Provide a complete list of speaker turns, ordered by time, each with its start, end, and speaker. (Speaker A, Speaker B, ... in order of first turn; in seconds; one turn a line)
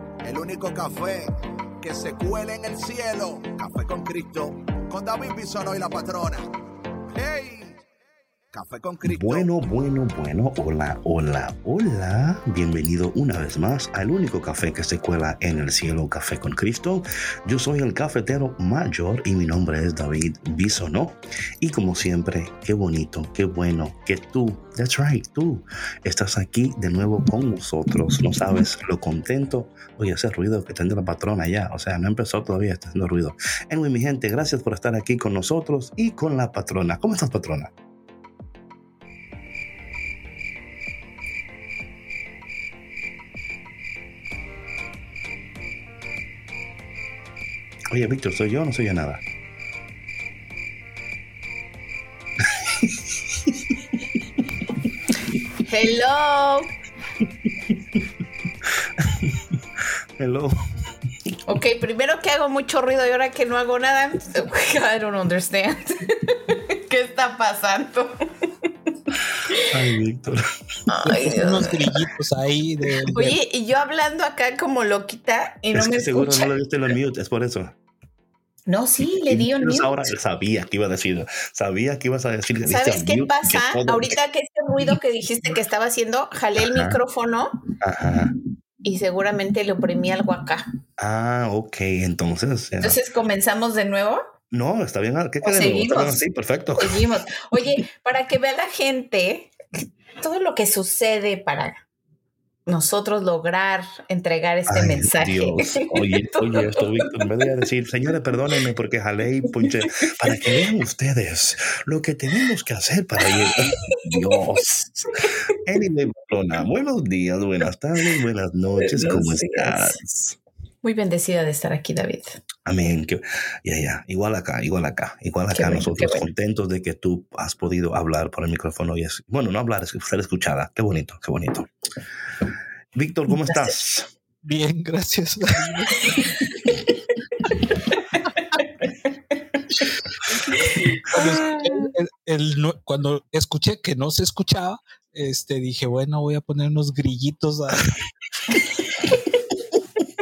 Speaker A: 0.2-6.5
Speaker A: 7.1-7.8
Speaker A: 8.5-9.5
Speaker B: 9.0-37.7
Speaker B: 47.9-49.2
Speaker C: 55.6-56.7
Speaker B: 59.0-59.4
Speaker B: 60.2-60.6
Speaker C: 61.5-68.7
Speaker B: 69.6-70.4
Speaker C: 70.9-71.7
Speaker D: 71.1-73.4
Speaker C: 73.1-76.5
Speaker B: 75.7-77.7
Speaker C: 78.7-80.1
Speaker B: 79.3-84.2
Speaker C: 82.7-87.6
Speaker B: 86.6-87.0
Speaker B: 87.8-88.3
Speaker C: 88.8-90.7
Speaker B: 91.0-93.0
Speaker C: 92.8-94.2
Speaker B: 94.5-97.0
Speaker C: 95.4-96.2
Speaker C: 96.8-101.8
Speaker C: 102.7-107.5
Speaker B: 104.7-120.4
Speaker C: 109.6-110.1
Speaker C: 113.4-114.3
Speaker C: 118.8-120.0
Speaker C: 120.8-122.4
Speaker B: 122.7-131.7
Speaker C: 125.5-126.2
Speaker B: 132.9-134.1
Speaker D: 134.4-136.4
Speaker C: 140.6-141.9
Speaker D: 141.1-147.9